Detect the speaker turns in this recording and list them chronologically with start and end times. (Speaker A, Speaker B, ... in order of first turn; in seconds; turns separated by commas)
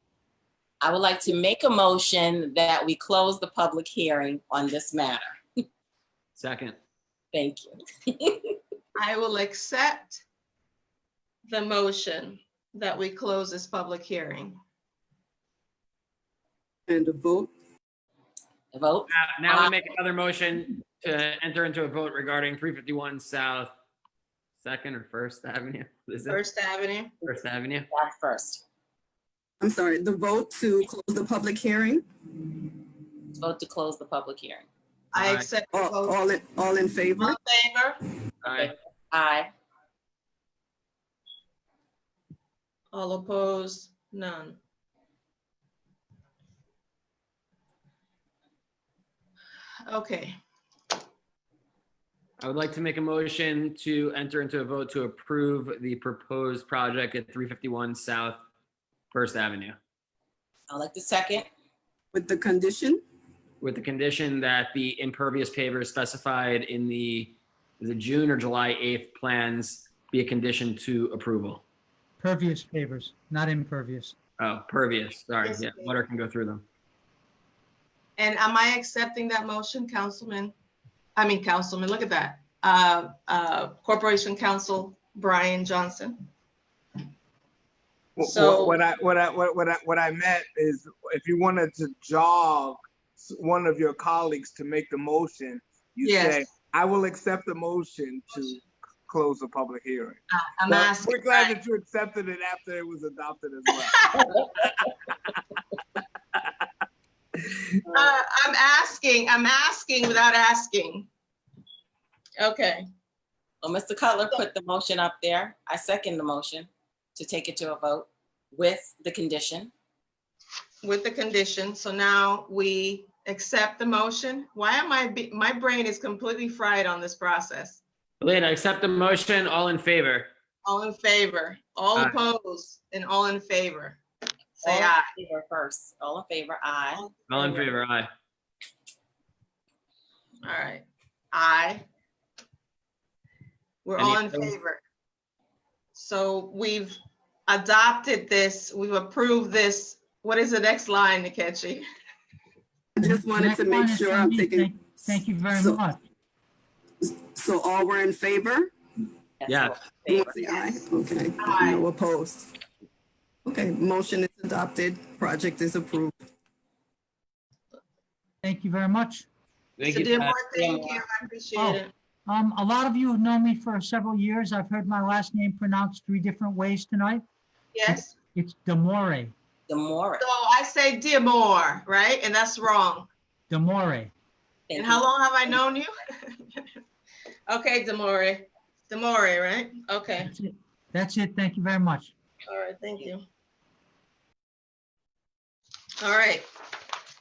Speaker A: 0.8-5.4, Speaker B: 6.3-6.8, Speaker A: 7.3-8.5, Speaker C: 8.9-10.2, Speaker C: 11.5-14.6, Speaker D: 16.9-17.5, Speaker A: 18.7-19.8, Speaker B: 19.1-23.7, Speaker B: 24.6-26.4, Speaker C: 26.3-27.1, Speaker B: 27.2-27.9, Speaker A: 27.9-28.6, Speaker D: 29.6-32.0, Speaker A: 33.3-34.7, Speaker C: 35.1-36.2, Speaker B: 35.1-35.5, Speaker D: 35.7-37.4, Speaker C: 37.2-38.0, Speaker B: 38.4-38.7, Speaker A: 38.5-39.5, Speaker C: 42.9-44.6, Speaker C: 49.9-50.3, Speaker B: 52.4-58.4, Speaker B: 59.1-59.8, Speaker A: 60.7-61.5, Speaker D: 62.1-63.0, Speaker B: 63.6-71.6, Speaker E: 72.2-74.1, Speaker B: 74.4-76.6, Speaker C: 75.4-76.0, Speaker C: 78.2-80.5, Speaker C: 81.2-86.2, Speaker F: 88.2-103.9, Speaker C: 88.2-88.8, Speaker C: 96.0-96.5, Speaker C: 100.3-101.6, Speaker C: 103.8-104.2, Speaker A: 104.2-104.7, Speaker C: 107.9-111.1, Speaker C: 112.4-112.8, Speaker A: 113.6-119.7, Speaker C: 120.8-127.8, Speaker B: 128.2-130.3, Speaker C: 130.6-134.0, Speaker C: 134.6-135.1, Speaker A: 134.6-137.1, Speaker C: 136.9-137.8, Speaker B: 137.3-138.1, Speaker C: 140.4-141.8, Speaker C: 143.8-144.8, Speaker B: 144.0-144.5, Speaker C: 145.9-151.8, Speaker D: 152.9-155.8, Speaker E: 153.0-156.0, Speaker D: 157.0-158.7, Speaker A: 159.4-160.8, Speaker B: 159.5-159.7, Speaker D: 160.1-162.5, Speaker C: 161.4-161.8, Speaker D: 163.4-166.1, Speaker E: 168.4-169.3, Speaker B: 169.8-170.4, Speaker C: 169.8-171.9, Speaker A: 170.5-171.0, Speaker E: 171.5-177.2, Speaker C: 177.7-178.1, Speaker E: 177.9-179.3, Speaker A: 179.7-180.2, Speaker C: 180.2-183.1, Speaker E: 183.5-184.1, Speaker A: 184.7-185.6, Speaker C: 184.8-186.6, Speaker C: 187.5-190.3, Speaker E: 190.2-192.1, Speaker C: 192.5-193.2, Speaker C: 196.0-196.4